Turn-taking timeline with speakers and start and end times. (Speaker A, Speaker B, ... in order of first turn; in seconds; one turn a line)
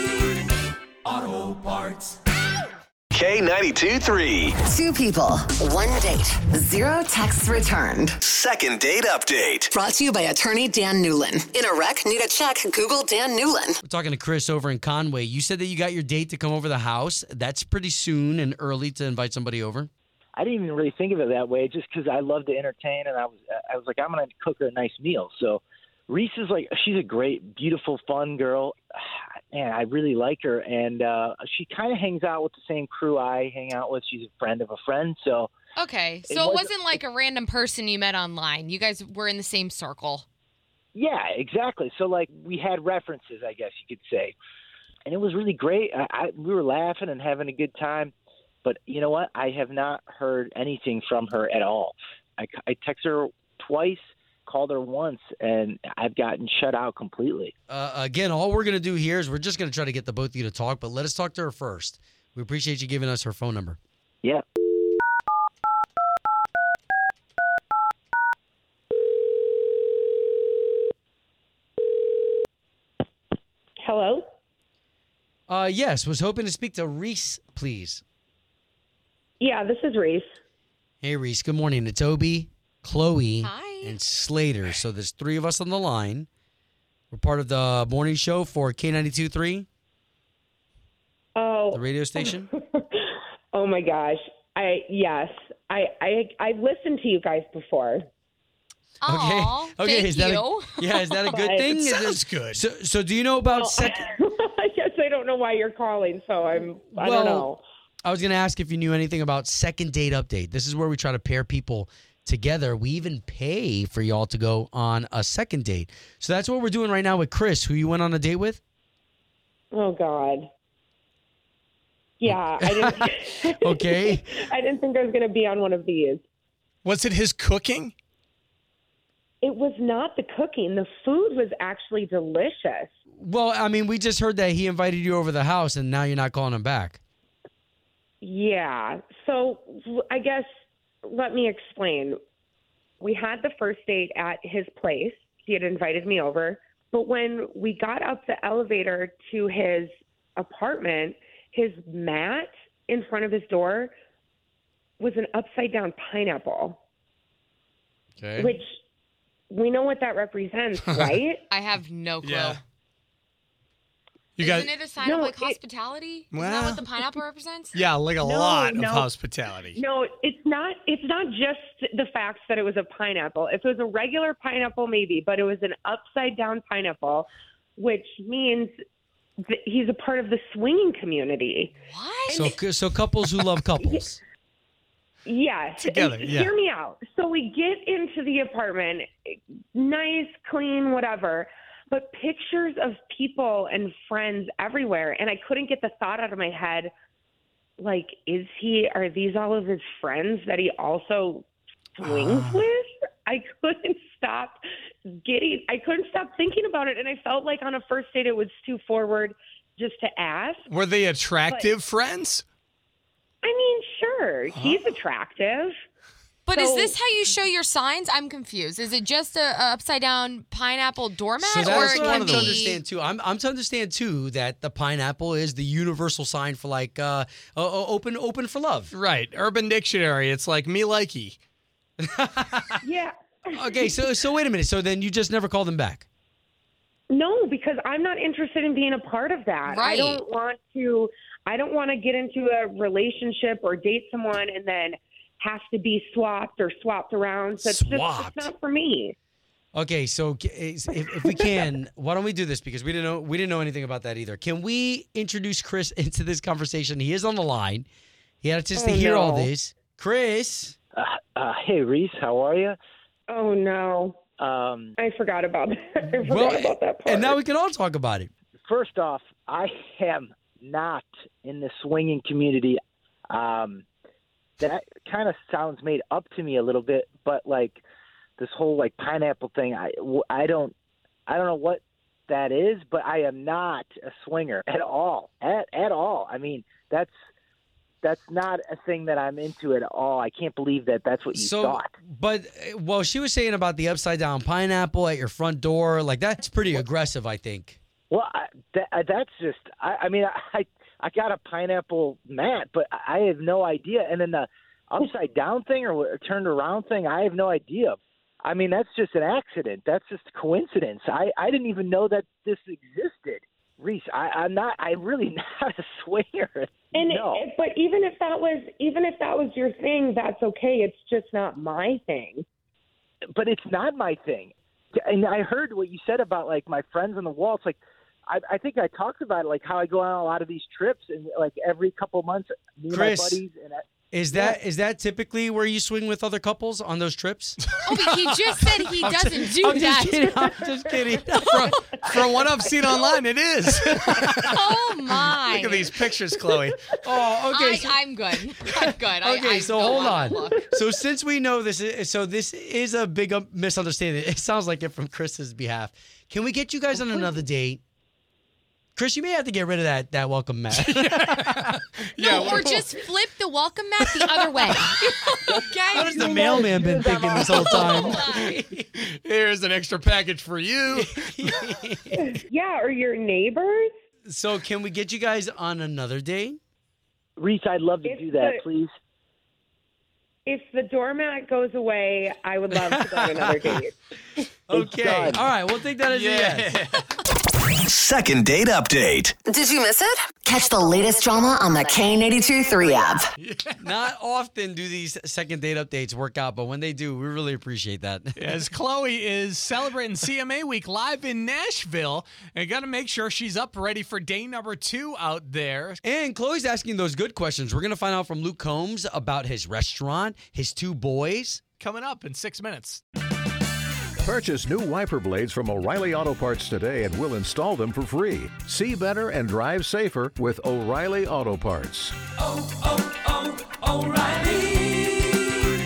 Speaker A: 1.1-2.1
Speaker B: 3.1-4.6
Speaker C: 4.6-8.2
Speaker B: 8.2-9.7
Speaker C: 9.7-13.8
Speaker D: 13.8-19.9
Speaker E: 20.4-35.5
Speaker F: 35.8-40.2
Speaker E: 36.3-36.7
Speaker E: 41.0-44.4
Speaker E: 45.1-48.1
Speaker E: 48.6-57.5
Speaker D: 57.7-63.8
Speaker G: 73.8-74.3
Speaker D: 75.5-78.0
Speaker G: 79.4-80.3
Speaker D: 81.0-86.3
Speaker F: 83.4-84.0
Speaker D: 87.1-89.7
Speaker G: 91.4-98.1
Speaker D: 91.7-92.5
Speaker F: 99.0-101.0
Speaker D: 99.1-104.1
Speaker G: 101.3-101.7
Speaker A: 101.7-102.6
Speaker G: 103.5-107.6
Speaker D: 106.9-107.5
Speaker D: 108.0-118.6
Speaker G: 119.7-120.5
Speaker G: 122.2-126.2
Speaker D: 122.3-124.3
Speaker A: 126.8-127.9
Speaker G: 129.4-132.9
Speaker D: 133.2-137.0
Speaker G: 138.2-140.5
Speaker G: 141.0-142.2
Speaker G: 143.0-153.9
Speaker G: 155.0-156.8
Speaker A: 158.2-158.5
Speaker G: 158.4-158.7
Speaker G: 159.5-161.4
Speaker A: 160.9-161.2
Speaker F: 161.5-162.6
Speaker A: 162.2-162.6
Speaker A: 164.4-164.7
Speaker F: 164.4-167.8
Speaker G: 165.0-165.6
Speaker A: 166.3-166.8
Speaker A: 167.7-169.8
Speaker G: 168.2-169.1
Speaker G: 169.7-178.7
Speaker G: 179.5-181.7
Speaker F: 181.9-182.4
Speaker G: 182.3-182.6
Speaker D: 182.3-184.2
Speaker G: 185.2-196.9
Speaker A: 185.8-186.5
Speaker G: 197.8-210.6
Speaker A: 210.7-212.4
Speaker G: 211.5-211.7
Speaker G: 213.4-215.7
Speaker A: 214.5-214.8
Speaker F: 216.5-222.8
Speaker G: 216.5-217.0
Speaker D: 221.4-228.9
Speaker A: 221.7-222.1
Speaker A: 228.9-231.4
Speaker D: 232.0-232.8
Speaker G: 232.8-234.1
Speaker D: 233.5-236.1
Speaker G: 237.1-249.2
Speaker F: 239.7-240.2
Speaker D: 247.6-248.5
Speaker D: 249.8-257.9
Speaker D: 258.4-260.8
Speaker G: 258.8-259.5
Speaker E: 260.9-262.8
Speaker G: 263.3-264.2
Speaker E: 264.4-264.9
Speaker G: 265.0-267.4
Speaker D: 266.1-268.3
Speaker E: 268.7-272.8
Speaker E: 273.3-273.8
Speaker E: 274.6-277.8
Speaker E: 278.4-280.7
Speaker E: 281.3-287.1
Speaker E: 288.0-291.9
Speaker D: 291.4-297.8
Speaker E: 298.1-317.4
Speaker G: 316.9-322.4
Speaker E: 323.3-333.8
Speaker D: 332.9-333.4
Speaker D: 334.1-337.6
Speaker A: 337.6-338.3
Speaker F: 337.8-340.2
Speaker D: 339.0-341.9
Speaker A: 341.5-344.6
Speaker D: 343.9-344.5
Speaker F: 344.5-345.9
Speaker A: 345.2-346.9
Speaker D: 347.0-348.0
Speaker F: 347.5-350.7
Speaker D: 348.7-357.8
Speaker D: 359.0-361.8
Speaker A: 360.8-362.6
Speaker F: 362.2-366.3
Speaker D: 364.2-364.6
Speaker D: 365.9-368.9
Speaker G: 366.0-368.1
Speaker F: 367.6-368.4
Speaker A: 367.8-368.2
Speaker A: 368.9-371.2
Speaker D: 370.9-372.4
Speaker G: 372.2-373.9
Speaker D: 374.3-376.6
Speaker E: 377.4-378.9
Speaker G: 378.0-378.6
Speaker G: 380.5-383.9
Speaker D: 382.7-383.5
Speaker D: 384.7-386.8
Speaker E: 384.7-385.5
Speaker A: 386.1-387.2
Speaker B: 387.9-389.3
Speaker C: 389.5-393.3
Speaker A: 393.4-393.9
Speaker D: 393.8-398.5
Speaker A: 398.4-406.0
Speaker D: 406.0-411.6
Speaker A: 411.8-413.0
Speaker H: 414.2-422.2
Speaker A: 423.9-424.8